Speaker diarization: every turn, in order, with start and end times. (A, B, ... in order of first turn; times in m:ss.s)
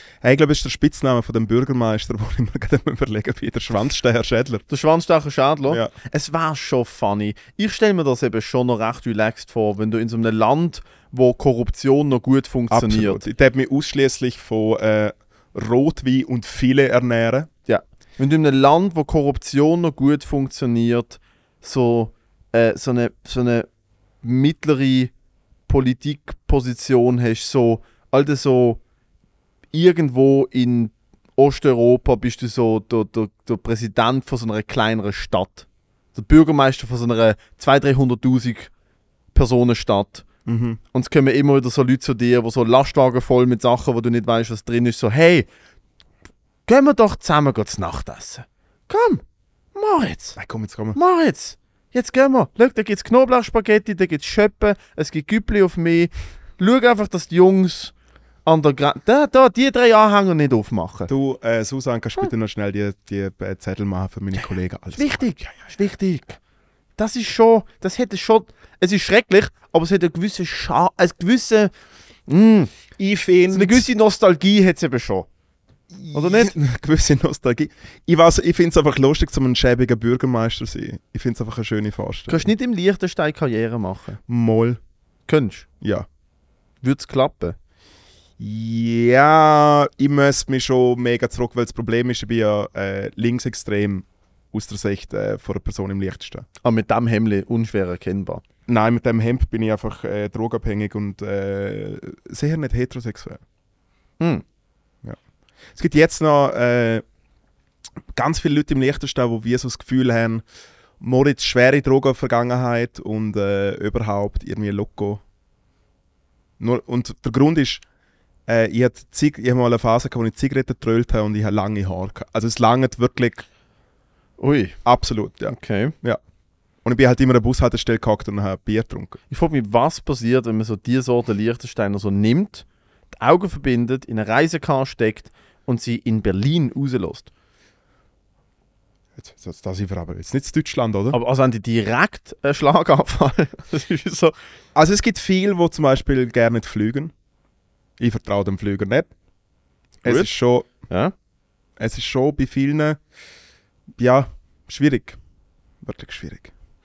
0:00.2-0:04.6 A
0:04.7-0:13.2 B
0:12.7-0:17.5 A
0:17.6-0:23.7 B
0:24.2-0:25.1 B
0:25.7-0:28.8 B
0:29.7-0:38.7 B
0:39.3-0:40.2 B
0:40.4-0:40.8 A
0:40.9-0:45.5 B
0:46.6-0:49.2 B
0:49.7-0:50.4 B
0:50.4-0:51.0 A
0:50.9-0:57.9 B
0:58.4-1:01.1 B
1:01.1-1:05.2 A
1:05.0-1:06.4 B
1:07.0-1:11.7 B
1:12.3-1:12.7 B
1:13.0-1:13.8 A
1:13.5-1:15.3 B
1:16.0-1:22.5 A
1:16.1-1:16.5 B
1:22.3-1:24.2 B
1:24.3-1:24.8 A
1:25.3-1:25.6 B
1:25.8-1:26.1 A
1:26.8-1:27.6 B
1:28.4-1:36.4 A
1:36.6-1:38.4 B
1:38.7-1:43.4 A
1:45.7-1:47.0 A
1:48.1-1:50.4 A
1:51.0-1:55.2 A
1:56.6-1:57.8 A
1:58.5-2:03.4 A
2:04.4-2:04.8 B
2:04.8-2:06.2 A
2:05.5-2:05.9 B
2:06.8-2:09.2 A
2:09.3-2:17.3 B
2:19.2-2:21.2 A
2:21.1-2:24.3 B
2:24.7-2:27.1 A
2:28.0-2:29.1 A
2:30.0-2:30.7 A
2:30.0-2:30.3 B
2:31.8-2:33.0 A
2:34.0-2:35.2 A
2:35.8-2:36.5 A